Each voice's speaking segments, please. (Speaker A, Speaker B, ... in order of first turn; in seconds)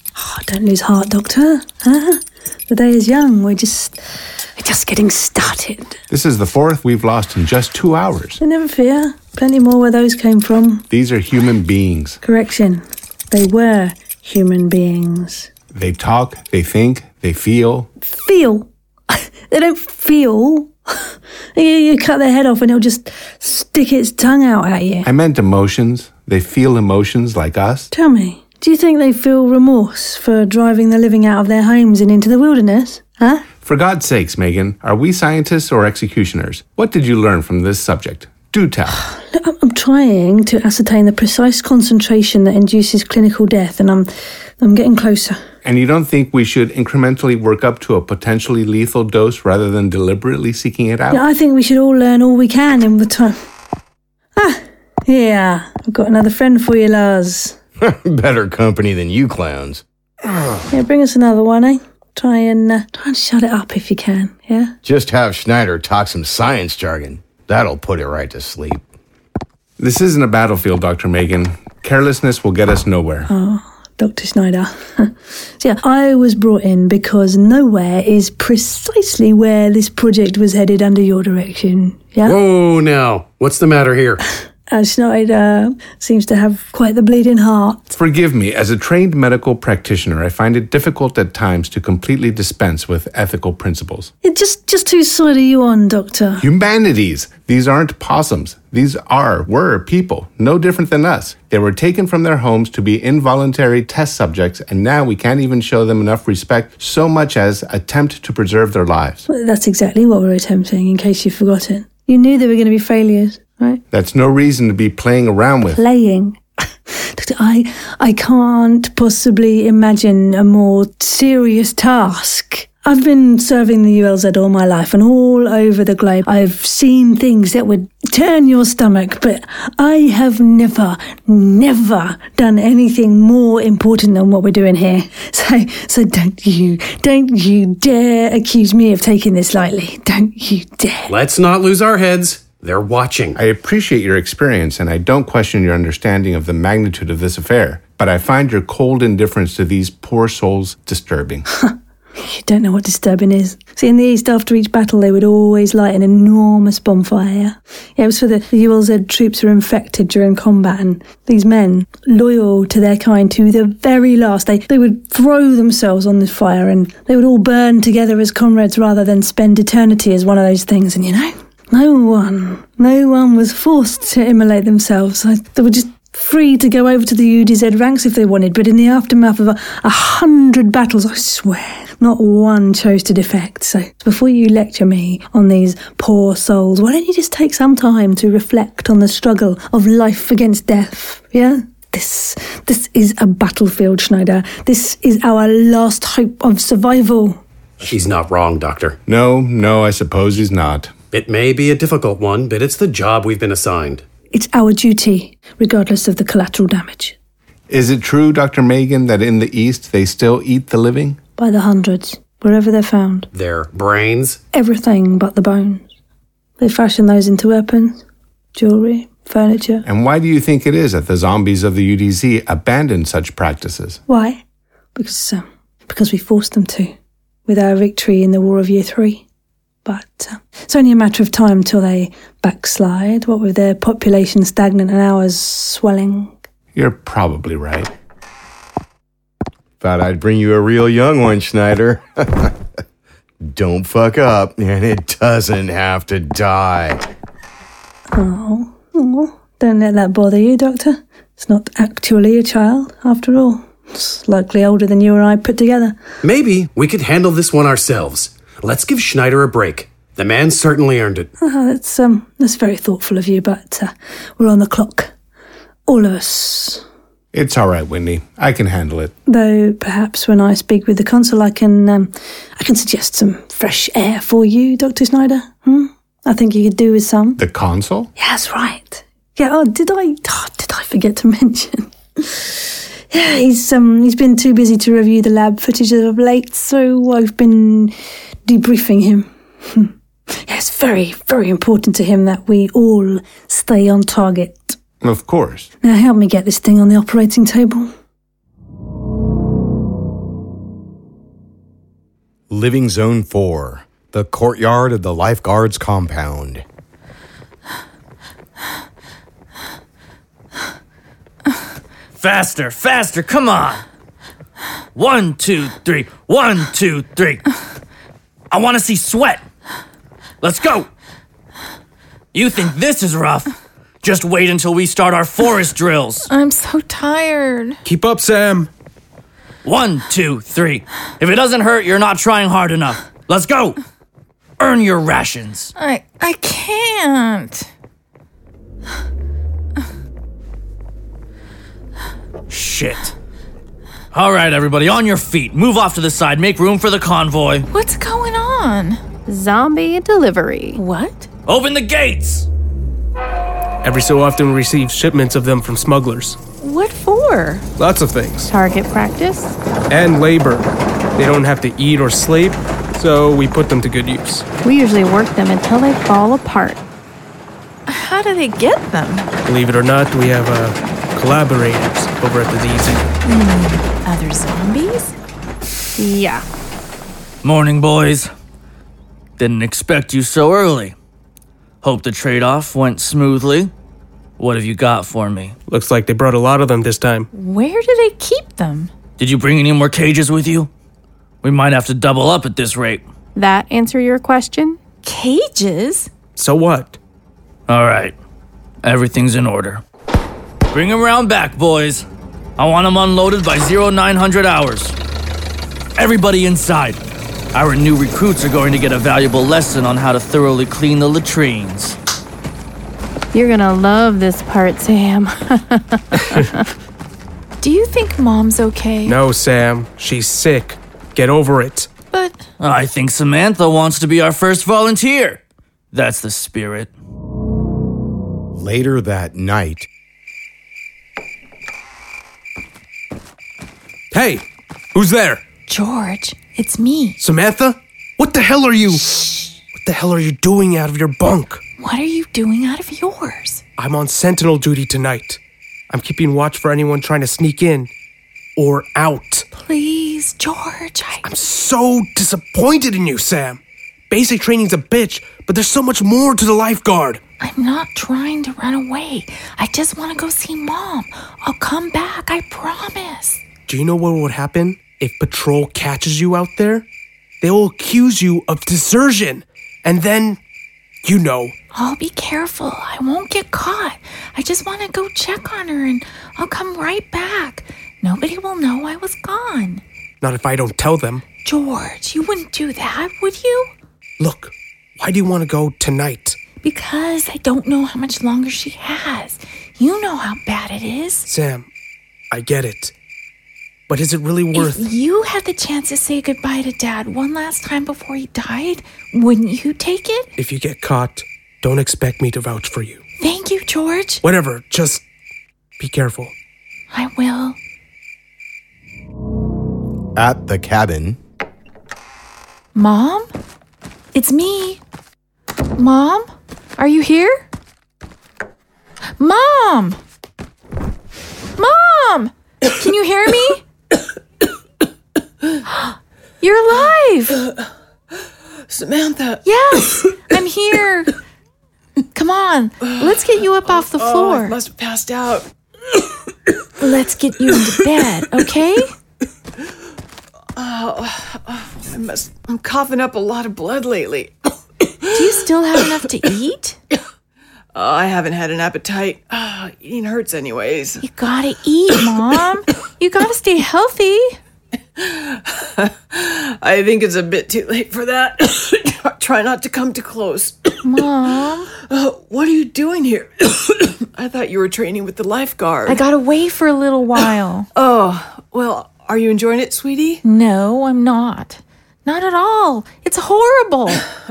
Speaker A: 0.2-4.0, 4.6-6.0, 8.4-10.9, 12.2-15.5, 18.0-20.7, 21.6-25.1, 27.9-33.5, 39.1-45.4, 51.1-53.4, 54.4-57.6, 60.7-64.7, 73.3-82.4, 84.7-87.9, 94.2-96.5, 109.3-113.8, 115.7-141.1, 151.5-197.4, 204.3-207.2, 211.4-213.3, 214.5-215.9, 216.6-218.0, 218.6-219.9, 224.1-224.4, 224.9-226.9, 227.5-229.2, 229.8-236.4, 248.1-256.0, 261.4-265.1, 265.9-266.8, 269.3-277.4, 278.2-287.9, 288.5-294.8, 295.8-297.9
Speaker B: 6.1-8.4, 10.9-12.2, 15.7-17.9, 25.0-27.9, 33.6-39.1, 45.6-51.2, 69.8-73.3, 87.9-94.1, 96.4-109.3, 113.9-115.8, 143.4-151.5, 199.1-200.9, 207.7-211.2, 219.8-224.0, 236.7-237.9, 267.3-269.1, 277.4-278.1, 295.0-295.7
Speaker C: 57.8-60.6, 64.8-68.8, 239.8-242.6, 243.4-247.0, 302.5-306.6, 428.6-429.9, 510.2-511.2
Speaker D: 82.2-84.2, 141.1-143.4, 197.8-199.0, 201.1-204.0, 213.3-214.4, 256.2-261.3
Speaker E: 312.2-313.9, 314.9-317.4, 318.5-319.4, 320.4-320.9, 322.3-326.3, 329.6-333.8, 334.6-335.7, 342.5-343.1, 344.1-347.7, 351.5-352.5, 377.4-378.3, 379.4-380.9, 381.8-383.7, 384.4-385.6, 389.2-390.7, 391.4-393.0, 397.7-398.1, 398.8-399.8, 400.7-402.1, 402.6-404.9, 406.0-407.0, 407.5-412.0, 422.6-425.4, 425.9-426.9
Speaker F: 326.3-327.8, 335.8-337.7, 347.7-349.0, 350.8-351.3, 356.6-357.7, 367.9-369.3, 373.2-375.2, 387.3-388.9, 395.0-396.1, 417.6-419.2, 422.1-422.4, 435.7-437.2, 441.8-443.6, 449.5-451.2, 457.4-463.4, 471.7-479.8, 481.4-483.7, 486.6-491.3, 494.5-500.3, 503.2-504.2, 506.9-507.6, 512.8-513.3, 514.1-514.8, 515.8-517.5, 519.2-520.0, 521.6-523.6, 525.7-527.4, 529.4-531.1, 532.1-534.6, 536.8-538.9, 545.1-546.8, 551.0-554.4, 560.8-561.7, 565.9-567.7, 570.2-574.0
Speaker G: 327.9-328.7, 353.8-356.4, 357.8-358.5, 359.9-364.5, 369.5-373.1, 385.7-387.3, 396.4-397.0, 416.2-416.5, 419.1-421.9, 434.1-435.4, 437.2-441.6, 443.8-447.9, 448.6-449.5, 451.2-457.2, 463.7-466.9, 467.4-470.4, 471.0-471.6, 480.2-481.2, 484.2-486.4, 491.3-491.7, 492.3-492.9, 493.9-494.9, 500.4-503.0, 504.2-505.1, 505.8-506.3
Speaker H: 349.3-350.8, 358.5-359.6, 364.6-366.8, 376.0-376.4, 393.4-394.8, 413.3-416.7
Speaker I: 528.7-529.4, 532.8-535.5, 540.6-544.3, 547.7-551.0, 555.0-560.8, 561.9-566.0, 567.8-570.2